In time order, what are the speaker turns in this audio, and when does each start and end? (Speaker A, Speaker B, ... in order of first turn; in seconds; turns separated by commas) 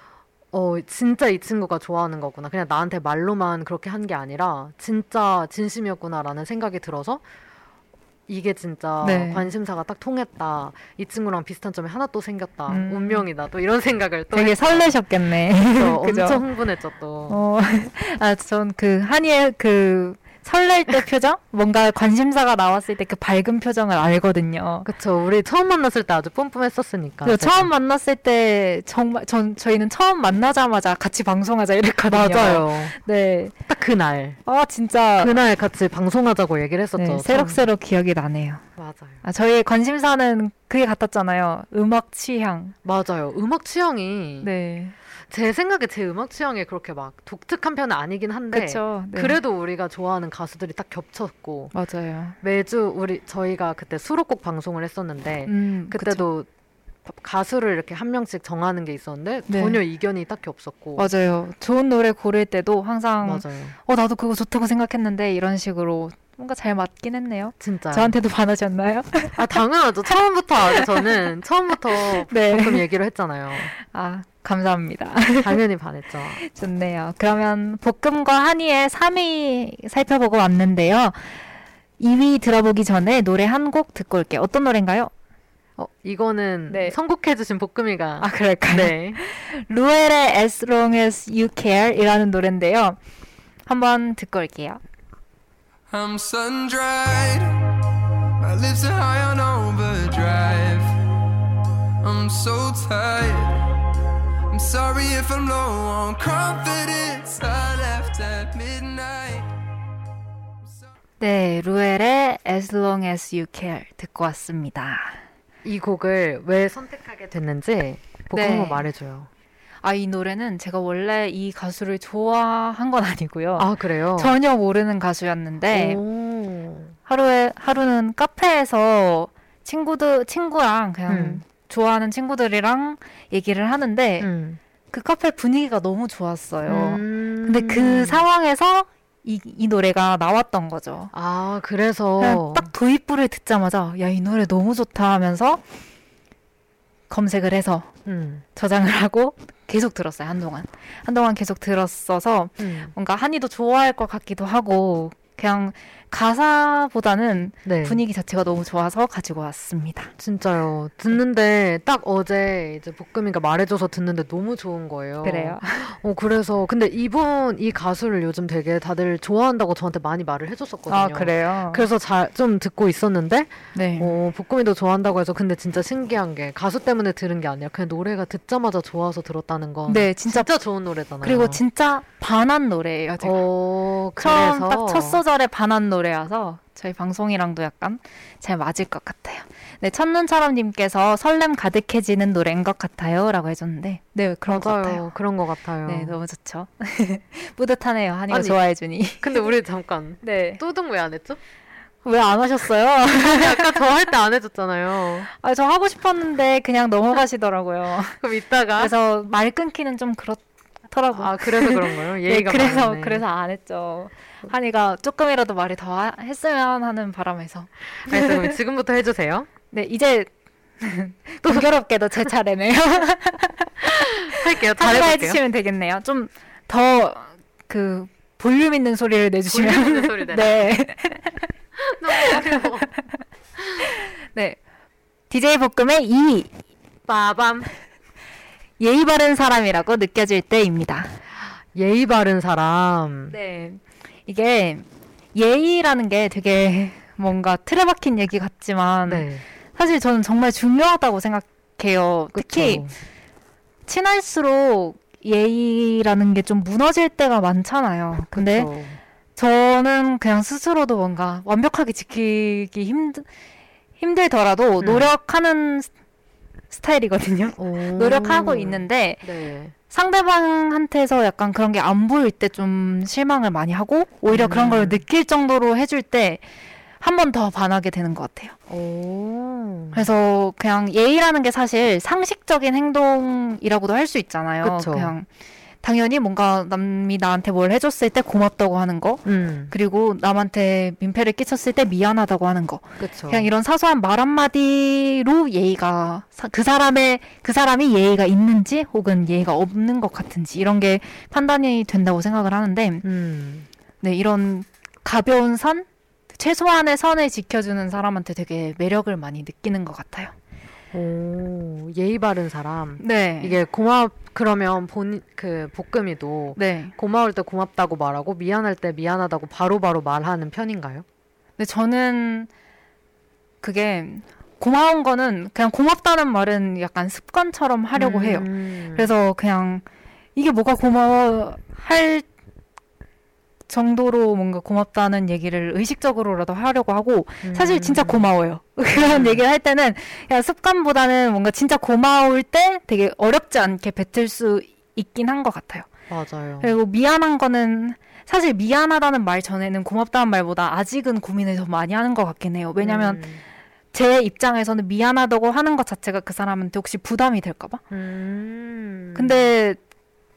Speaker A: 0.5-7.2, Speaker A: 8.3-14.9, Speaker B: 9.0-9.5, Speaker B: 12.7-13.3, Speaker B: 14.3-16.4, Speaker A: 15.7-17.4, Speaker B: 17.3-24.9, Speaker A: 24.8-27.7, Speaker B: 27.2-33.5, Speaker A: 32.1-32.9, Speaker A: 33.7-34.4, Speaker B: 34.5-35.3, Speaker A: 35.2-37.6, Speaker B: 37.0-38.6, Speaker A: 38.8-39.2, Speaker B: 39.2-42.7, Speaker A: 42.8-44.5, Speaker B: 44.4-44.9, Speaker A: 45.3-51.7, Speaker B: 48.5-49.4, Speaker B: 51.7-52.4, Speaker A: 52.4-56.5, Speaker B: 55.5-56.2, Speaker A: 57.1-61.1, Speaker B: 59.5-59.8, Speaker B: 61.0-69.5, Speaker A: 63.2-63.8, Speaker A: 67.6-68.1, Speaker A: 69.3-73.7, Speaker B: 70.7-71.1, Speaker B: 72.0-72.8, Speaker B: 73.7-75.6, Speaker A: 75.4-76.4, Speaker B: 76.4-81.4, Speaker B: 82.0-85.1, Speaker A: 85.8-89.2, Speaker B: 86.7-87.0, Speaker B: 88.2-93.0, Speaker B: 93.7-94.8, Speaker C: 95.9-97.5, Speaker C: 98.4-101.0, Speaker C: 102.0-103.6, Speaker C: 104.5-109.5, Speaker B: 111.2-115.2, Speaker A: 115.6-119.3, Speaker B: 118.3-118.8, Speaker B: 119.8-126.0, Speaker A: 123.6-124.3, Speaker A: 125.7-127.0, Speaker B: 127.1-134.3, Speaker A: 131.1-131.4, Speaker A: 134.2-134.6, Speaker B: 134.9-141.1, Speaker A: 136.6-138.2, Speaker A: 141.1-142.7, Speaker B: 142.2-145.6, Speaker B: 147.1-148.0, Speaker A: 148.1-148.4, Speaker B: 148.6-160.1, Speaker A: 152.6-152.9, Speaker A: 157.6-158.0, Speaker A: 160.2-181.6, Speaker B: 165.2-165.9, Speaker B: 170.9-171.8, Speaker B: 173.7-174.1, Speaker B: 179.9-180.5, Speaker B: 181.2-183.4, Speaker A: 183.2-185.2, Speaker B: 184.2-195.1, Speaker A: 194.5-196.2, Speaker B: 195.8-199.4, Speaker A: 198.3-198.6, Speaker A: 199.2-201.4, Speaker B: 200.2-200.6, Speaker B: 202.0-203.8, Speaker A: 203.1-205.3, Speaker B: 205.3-208.2, Speaker A: 208.2-208.9, Speaker B: 208.8-218.5, Speaker A: 211.1-213.2, Speaker A: 217.9-219.5, Speaker B: 219.7-231.5, Speaker A: 223.8-225.4, Speaker A: 229.5-230.5, Speaker A: 231.8-232.9, Speaker B: 232.1-232.4, Speaker B: 233.8-234.6, Speaker B: 235.3-236.5, Speaker A: 237.1-237.7, Speaker B: 238.8-241.2, Speaker A: 241.7-243.3, Speaker B: 243.3-252.9, Speaker A: 249.1-249.4, Speaker A: 252.3-252.9, Speaker B: 253.8-258.7, Speaker A: 258.3-259.0, Speaker B: 259.4-263.3, Speaker B: 264.0-265.9, Speaker A: 264.8-265.1, Speaker B: 266.7-269.2, Speaker A: 267.6-269.7, Speaker B: 269.9-276.4, Speaker A: 274.3-275.0, Speaker B: 277.0-278.5, Speaker A: 278.7-280.1, Speaker B: 279.9-285.3, Speaker A: 284.6-285.1, Speaker B: 285.8-303.0, Speaker A: 289.2-289.7, Speaker A: 293.0-293.5, Speaker A: 303.0-303.7, Speaker B: 304.0-310.3, Speaker A: 310.9-321.0, Speaker B: 313.0-313.6, Speaker B: 316.6-316.9, Speaker B: 321.6-322.5, Speaker B: 323.6-332.2, Speaker A: 327.9-329.1, Speaker B: 333.7-345.9, Speaker A: 337.4-338.2, Speaker A: 338.9-339.4, Speaker A: 346.1-346.7, Speaker B: 346.6-353.2, Speaker A: 352.8-353.4, Speaker B: 353.9-357.8, Speaker A: 357.9-359.5, Speaker B: 359.1-359.8